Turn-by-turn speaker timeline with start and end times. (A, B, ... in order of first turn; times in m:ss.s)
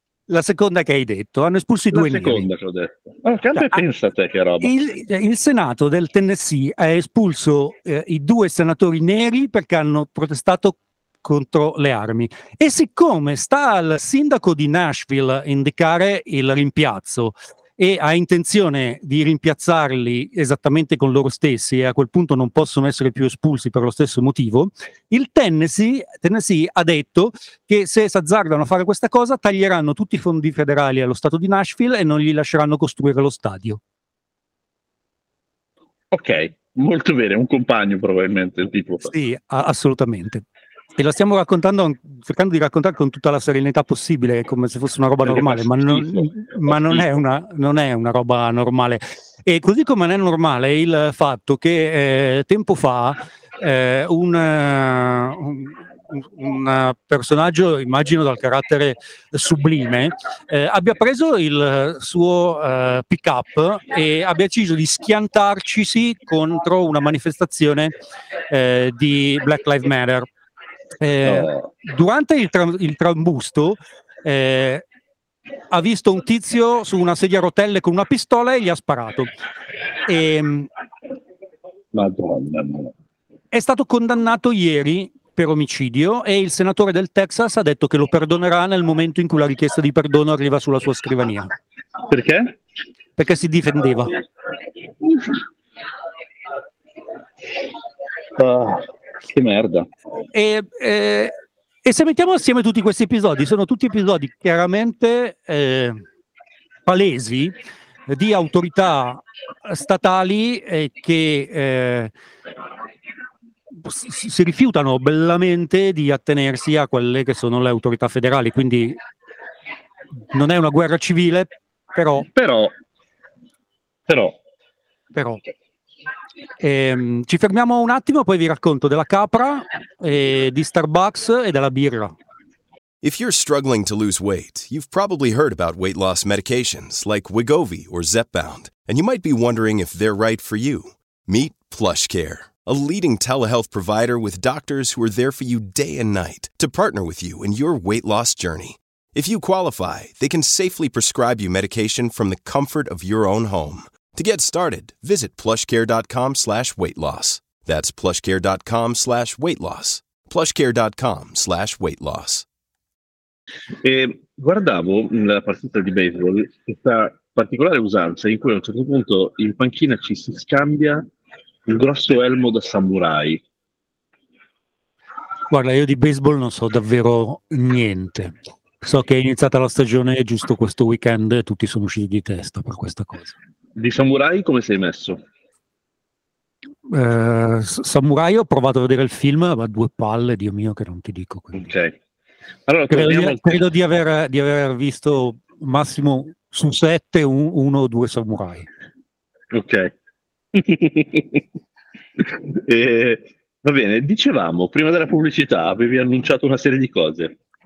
0:00.3-0:02.5 A
0:01.9-0:04.7 B
0:03.6-0:03.8 A
0:04.6-0:33.8 A
0:36.1-0:39.1 B
0:39.0-0:40.4 A
0:41.0-1:07.9 A
0:45.2-0:47.0 B
1:08.5-1:10.3 A
1:11.0-1:14.8 A
1:11.2-1:11.7 B
1:15.7-1:19.3 A
1:20.1-1:20.7 A
1:21.9-1:22.9 B
1:23.5-1:31.5 A
1:32.1-1:32.6 B
1:33.2-1:34.2 A
1:38.4-1:39.9 B
1:40.3-1:46.0 A
1:46.8-1:47.5 A
1:48.1-1:52.1 A
1:53.8-1:59.0 A
2:00.3-2:02.3 A
2:02.2-2:02.7 B
2:04.1-2:04.4 B
2:05.1-2:05.4 A
2:06.6-2:12.2 A
2:13.0-2:42.5 C
2:43.8-2:51.0 B
2:51.7-2:53.4 B
2:55.5-3:03.4 A
3:03.8-3:05.2 B
3:06.9-3:11.7 A
3:11.5-3:12.0 B
3:12.7-3:13.6 B
3:12.9-3:18.7 A
3:19.5-3:19.9 B
3:20.5-3:21.4 B
3:22.2-3:27.3 B